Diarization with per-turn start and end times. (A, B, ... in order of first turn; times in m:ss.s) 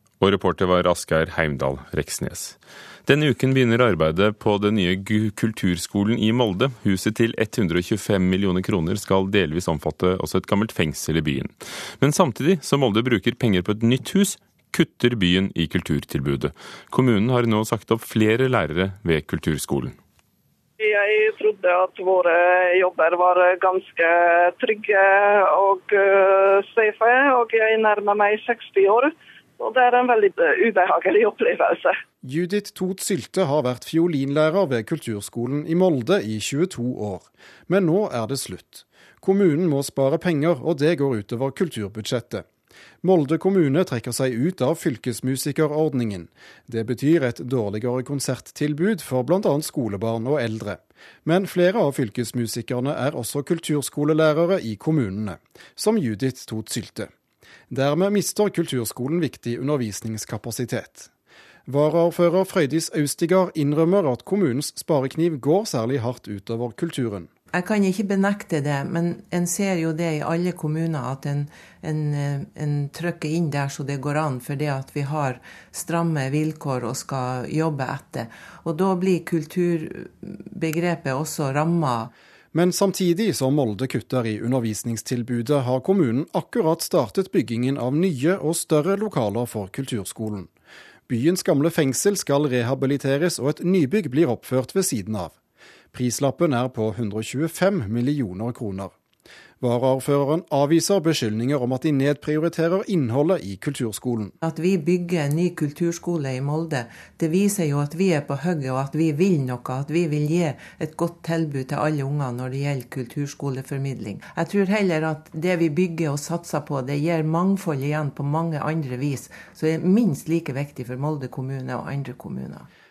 0:00.2-0:20.0 A
0:20.8-0:32.0 B
0:32.2-0:42.5 C
0:43.0-0:57.1 C
0:57.7-1:01.1 C
1:01.7-1:07.3 C
1:07.5-1:22.1 D
1:22.5-1:30.5 C
1:31.1-1:35.4 C
1:35.9-1:38.9 C
1:39.6-1:44.3 C
1:44.4-2:02.7 D